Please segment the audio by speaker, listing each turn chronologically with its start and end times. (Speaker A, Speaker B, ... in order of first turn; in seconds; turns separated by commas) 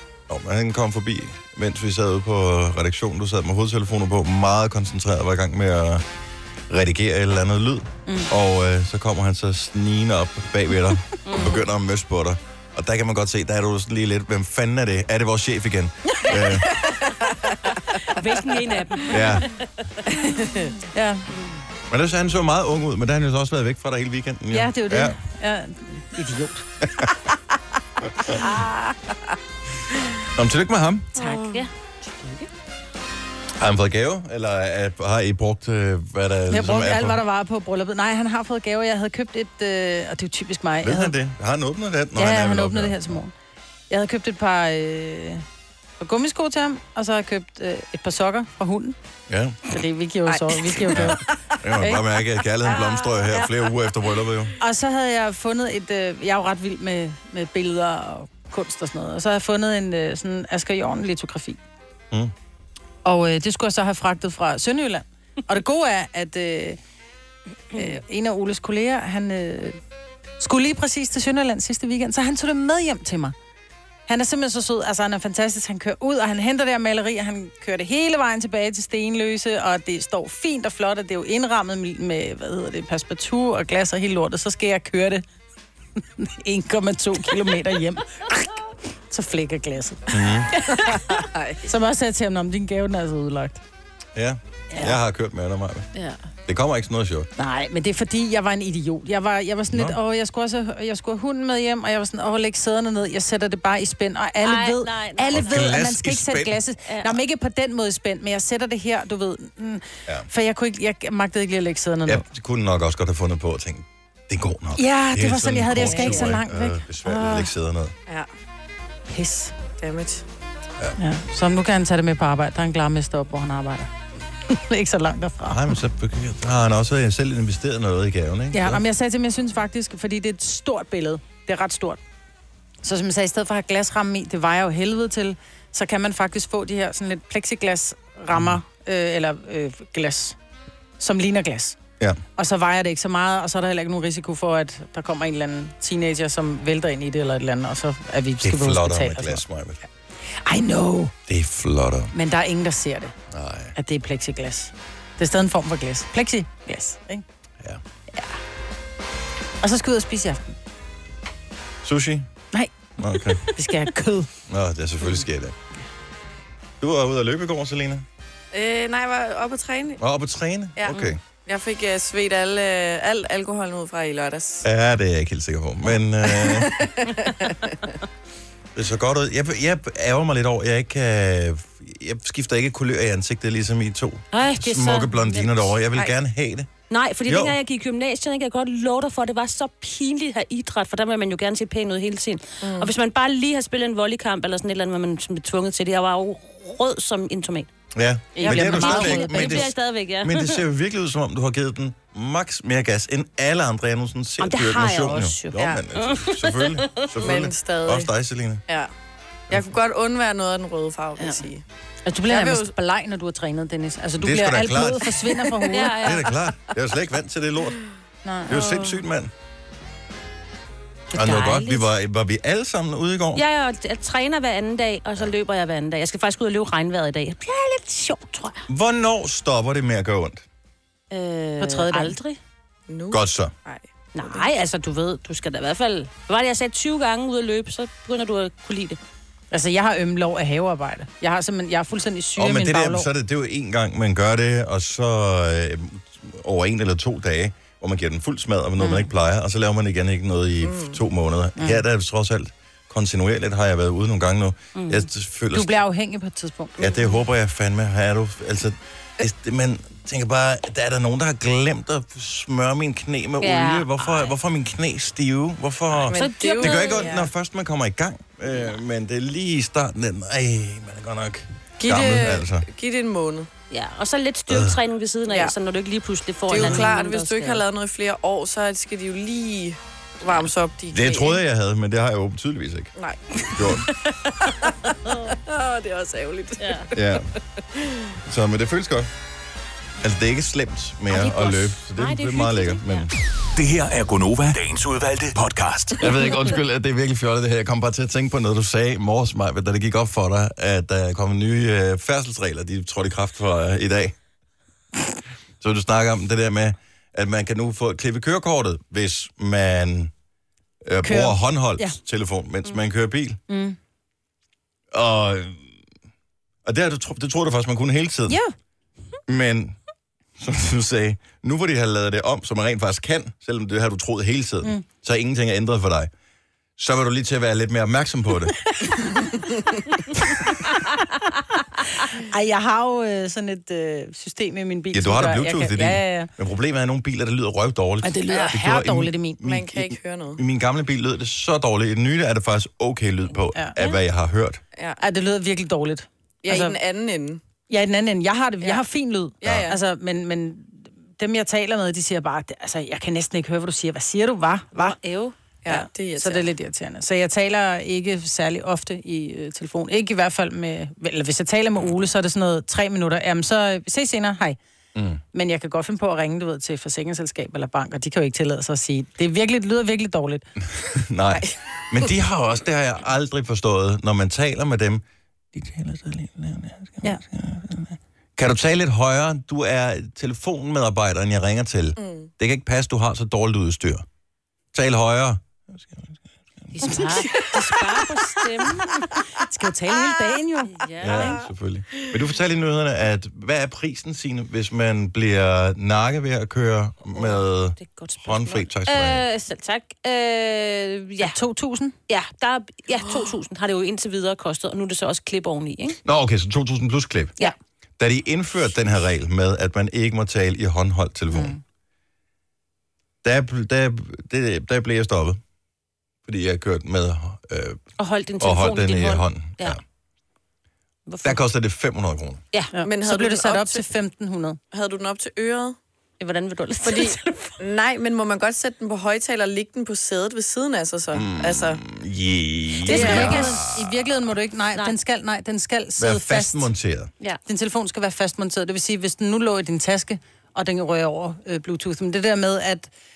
Speaker A: 0.3-6.0, Speaker A: 6.7-16.7, Speaker B: 11.2-11.7, Speaker C: 16.3-17.5, Speaker B: 17.9-19.5, Speaker A: 19.1-19.5, Speaker C: 20.2-20.7, Speaker D: 20.9-21.2, Speaker A: 21.9-25.1, Speaker D: 24.5-26.7, Speaker D: 28.4-28.8, Speaker A: 30.3-31.1, Speaker C: 31.2-31.6, Speaker B: 31.2-31.7, Speaker D: 32.1-32.5, Speaker A: 33.6-37.2, Speaker D: 36.5-41.1, Speaker A: 40.8-43.2, Speaker D: 42.1-43.3, Speaker D: 43.9-45.4, Speaker D: 46.0-49.0, Speaker A: 49.3-49.6, Speaker D: 49.7-51.1, Speaker C: 50.3-51.2, Speaker A: 50.9-54.5, Speaker C: 52.6-53.7, Speaker D: 54.6-61.6, Speaker D: 63.0-66.8, Speaker D: 67.7-69.8, Speaker D: 70.4-73.3, Speaker D: 74.1-85.2, Speaker D: 86.2-88.5, Speaker D: 89.1-90.1, Speaker A: 90.1-90.5, Speaker C: 90.7-91.6, Speaker D: 91.6-93.6, Speaker A: 94.1-95.9, Speaker A: 96.5-97.3, Speaker D: 97.4-112.2, Speaker A: 99.7-100.0, Speaker B: 104.4-105.7, Speaker A: 105.3-106.6, Speaker B: 106.8-107.2, Speaker A: 112.0-117.9, Speaker D: 114.8-117.5, Speaker D: 119.1-119.5, Speaker C: 119.8-120.2, Speaker D: 121.0-123.9, Speaker D: 124.5-125.7, Speaker A: 125.4-128.8, Speaker D: 128.5-132.0, Speaker D: 132.8-140.3, Speaker D: 141.0-141.8, Speaker D: 142.4-149.4, Speaker A: 148.4-149.8, Speaker D: 150.4-151.1, Speaker A: 151.3-152.1, Speaker D: 152.1-153.1, Speaker A: 153.3-153.7, Speaker D: 153.8-157.2, Speaker D: 159.6-160.5, Speaker A: 161.8-162.3, Speaker A: 163.0-163.4, Speaker D: 163.4-164.3, Speaker A: 164.5-165.5, Speaker A: 166.8-168.0, Speaker C: 168.5-170.0, Speaker A: 170.0-171.2, Speaker C: 170.8-174.6, Speaker A: 174.6-176.8, Speaker C: 176.2-177.8, Speaker A: 178.7-186.7, Speaker B: 184.3-185.7, Speaker B: 186.9-197.7, Speaker A: 187.3-187.6, Speaker C: 192.6-192.9, Speaker A: 197.9-208.6, Speaker D: 198.3-199.7, Speaker B: 198.4-200.6, Speaker B: 204.4-207.3, Speaker C: 205.6-205.8, Speaker C: 207.2-208.1, Speaker C: 209.5-211.6, Speaker D: 212.1-216.0, Speaker C: 212.3-212.7, Speaker A: 214.2-215.2, Speaker B: 215.7-216.3, Speaker A: 216.0-217.8, Speaker D: 218.2-218.9, Speaker A: 218.5-219.3, Speaker A: 221.1-223.4, Speaker B: 221.2-221.8, Speaker B: 223.3-228.6, Speaker A: 228.7-230.4, Speaker B: 231.1-232.4, Speaker D: 231.6-232.2, Speaker C: 232.9-234.5, Speaker A: 233.1-233.5, Speaker B: 234.1-239.0, Speaker D: 239.5-243.1, Speaker A: 242.4-255.7, Speaker D: 248.8-249.0, Speaker C: 250.6-251.0, Speaker D: 251.6-251.8, Speaker B: 254.8-255.1, Speaker D: 255.5-257.2, Speaker A: 256.8-272.6, Speaker B: 263.4-264.3, Speaker C: 266.1-267.3, Speaker B: 266.1-267.1, Speaker C: 271.8-273.5, Speaker B: 273.7-277.6, Speaker A: 274.5-274.8, Speaker C: 276.5-281.4, Speaker A: 276.6-276.9, Speaker A: 280.9-282.9, Speaker A: 283.5-283.9, Speaker C: 284.4-284.7, Speaker C: 285.3-286.9, Speaker B: 286.6-286.9, Speaker A: 286.9-287.3, Speaker C: 287.7-288.0, Speaker A: 288.3-289.1, Speaker A: 290.0-293.1, Speaker B: 291.1-293.1, Speaker E: 293.5-296.0, Speaker A: 296.0-304.1, Speaker A: 305.6-310.1, Speaker A: 310.8-313.4, Speaker D: 311.0-311.9, Speaker D: 313.5-313.8, Speaker A: 314.9-315.7, Speaker A: 316.6-318.4, Speaker A: 319.3-319.8, Speaker A: 320.4-326.1, Speaker A: 326.8-328.5, Speaker D: 332.0-336.3, Speaker A: 334.9-344.6, Speaker D: 338.0-339.4, Speaker C: 339.4-340.4, Speaker B: 343.8-344.0, Speaker D: 345.0-346.8, Speaker C: 346.4-347.4, Speaker D: 347.7-355.0, Speaker C: 349.4-349.8, Speaker B: 354.8-355.3, Speaker C: 355.6-356.5, Speaker D: 355.7-364.6, Speaker A: 364.9-365.2, Speaker D: 365.3-370.4, Speaker A: 370.6-384.0, Speaker C: 382.0-382.3, Speaker A: 384.7-386.2, Speaker B: 386.7-389.0, Speaker D: 386.8-387.3, Speaker D: 389.4-390.8, Speaker B: 390.7-391.4, Speaker A: 391.0-399.2, Speaker B: 397.1-401.4, Speaker D: 401.2-401.9, Speaker B: 402.1-406.0, Speaker A: 406.0-407.3, Speaker A: 408.0-411.6, Speaker A: 413.2-415.4, Speaker A: 416.3-417.8, Speaker B: 418.0-419.8, Speaker A: 418.4-419.8, Speaker B: 421.1-421.4, Speaker A: 421.2-422.4, Speaker D: 422.7-424.6, Speaker C: 422.8-423.9, Speaker C: 424.7-425.8, Speaker B: 426.2-427.6, Speaker C: 426.8-431.8, Speaker A: 431.1-433.9, Speaker D: 432.9-436.7, Speaker B: 432.9-433.8, Speaker C: 432.9-433.4, Speaker A: 436.0-437.1, Speaker D: 437.4-442.9